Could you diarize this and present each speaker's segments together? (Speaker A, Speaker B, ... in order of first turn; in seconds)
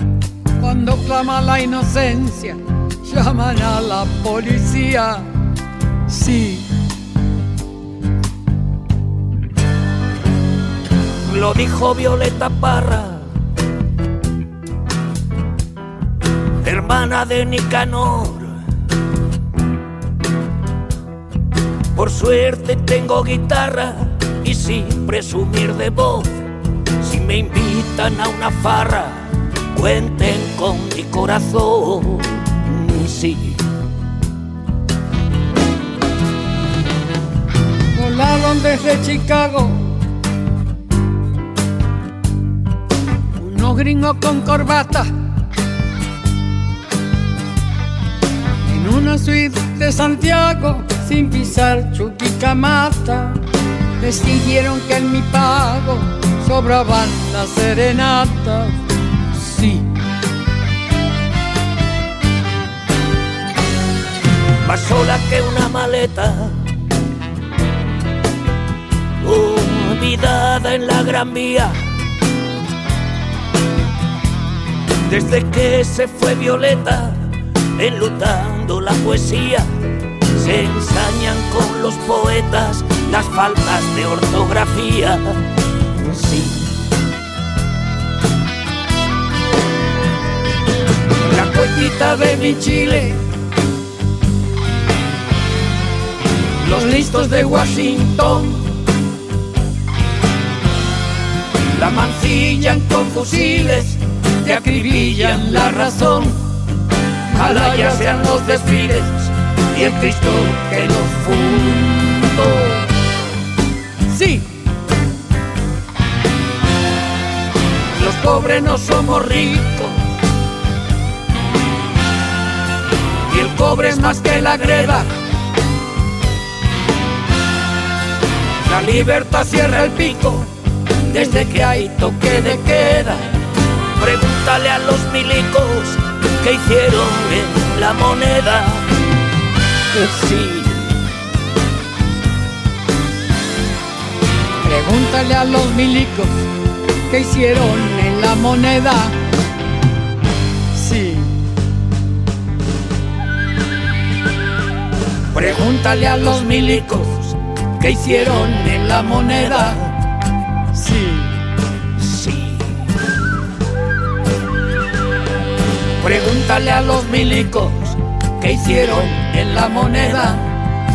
Speaker A: 0.6-5.2, 6.1-6.7, 38.0-39.9, 43.4-45.1, 48.7-53.4, 54.0-58.8, 59.3-59.9, 91.3-93.2, 96.7-98.5, 102.3-103.9, 104.4-106.3, 107.3-109.0, 110.7-111.1, 114.1-114.5, 118.0-119.8, 123.5-125.1, 129.3-130.3, 131.1-132.9, 144.6-146.5, 147.1-149.2, 150.7-151.3, 155.4-157.0, 157.8-159.8, 160.7-161.4, 166.1-167.7, 168.4-170.4
Speaker B: 11.2-13.3, 16.6-18.5, 21.9-26.3, 27.0-33.6, 64.6-66.6, 69.2-71.8, 75.1-77.2, 77.8-79.7, 80.3-85.3, 86.0-86.7, 91.3-92.9, 96.6-98.1, 101.8-106.3, 107.3-112.5, 118.0-119.9, 123.3-125.1, 128.7-130.5, 131.1-133.2, 134.0-138.8, 139.9-140.9, 155.3-159.8, 162.0-162.8, 166.0-167.7, 168.4-170.4